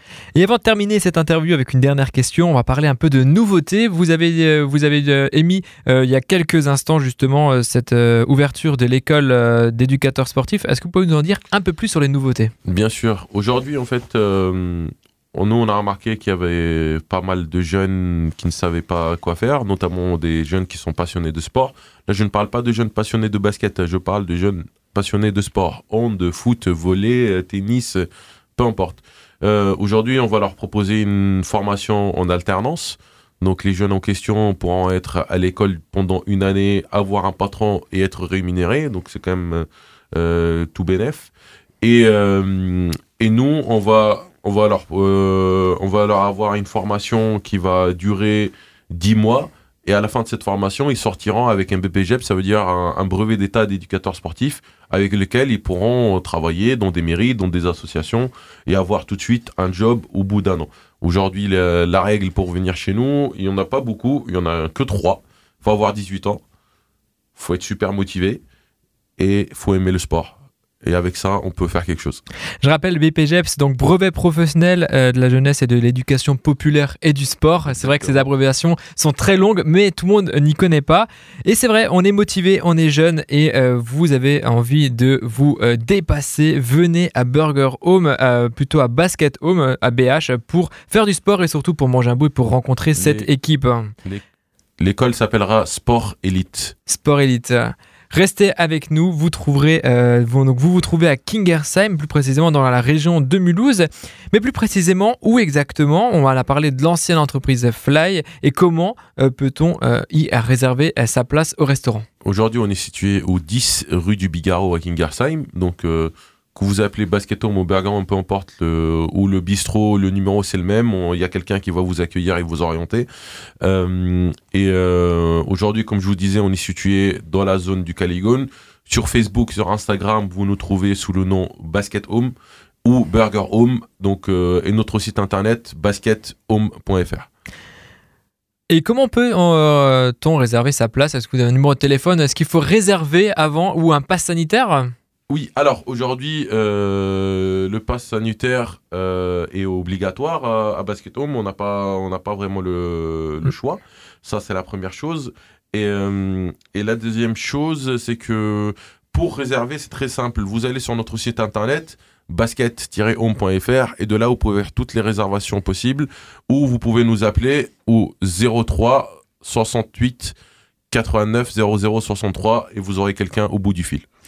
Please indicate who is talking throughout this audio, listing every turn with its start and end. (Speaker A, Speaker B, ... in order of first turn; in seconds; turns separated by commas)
Speaker A: 0.3-12.5, Speaker B: 12.6-41.3, Speaker B: 41.8-66.4, Speaker B: 67.3-68.4, Speaker B: 69.2-72.2, Speaker A: 72.6-93.9, Speaker B: 77.7-78.3, Speaker B: 93.0-93.3, Speaker B: 94.8-96.8, Speaker A: 96.8-112.0, Speaker B: 112.2-123.1, Speaker B: 123.6-132.3, Speaker B: 132.8-137.3, Speaker A: 138.7-144.9, Speaker B: 145.3-170.3, Speaker B: 170.9-174.1